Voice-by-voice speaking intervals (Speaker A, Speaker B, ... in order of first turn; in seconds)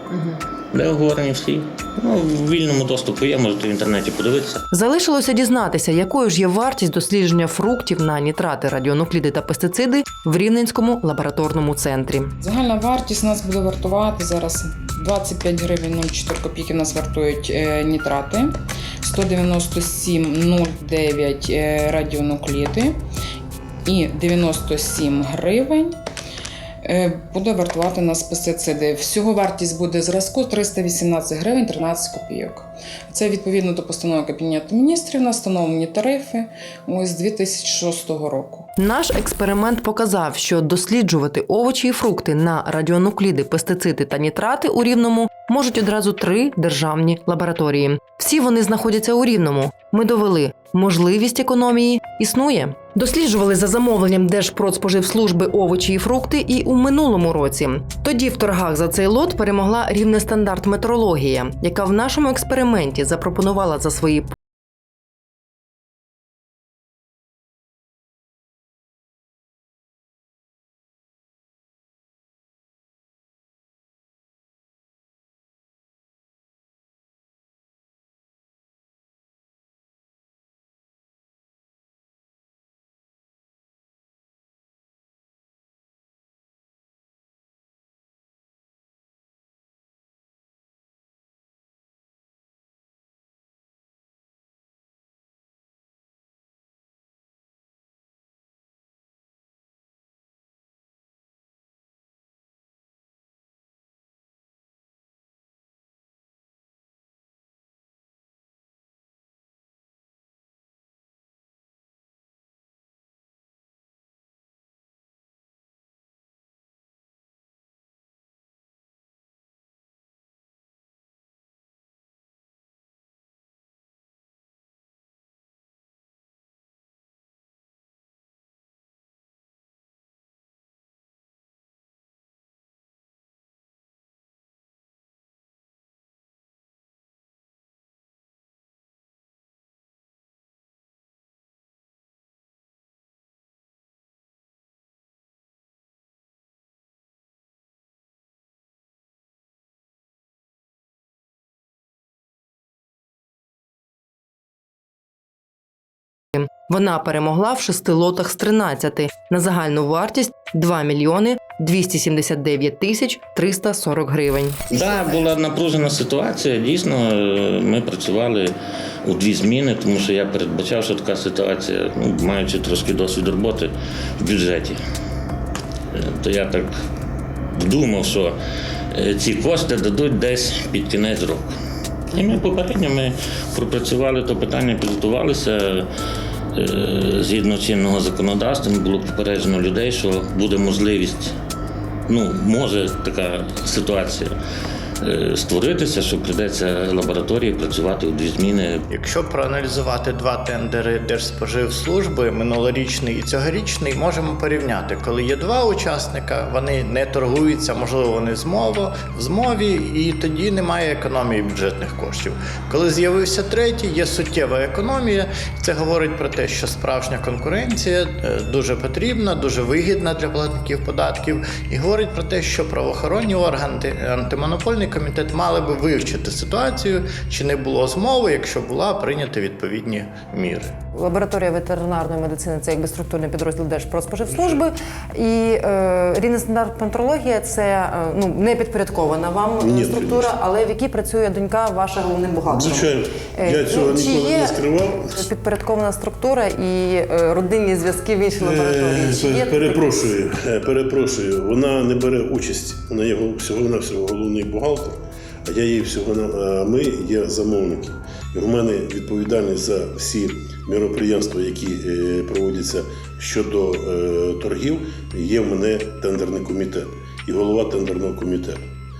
Speaker A: 0.7-4.6, 164.7-174.8, 175.9-176.7, 177.5-178.4, 178.9-181.5, 182.1-185.9, 186.5-191.3, 192.1-194.3, 195.0-198.8
Speaker B: 4.7-12.3, 38.8-64.3, 156.3-164.7, 230.9-244.6, 245.1-250.1
Speaker C: 12.4-22.9, 23.8-26.0, 26.8-38.7
Speaker D: 198.9-230.7
Speaker E: 239.6-240.3, 242.5-245.1, 248.4-268.6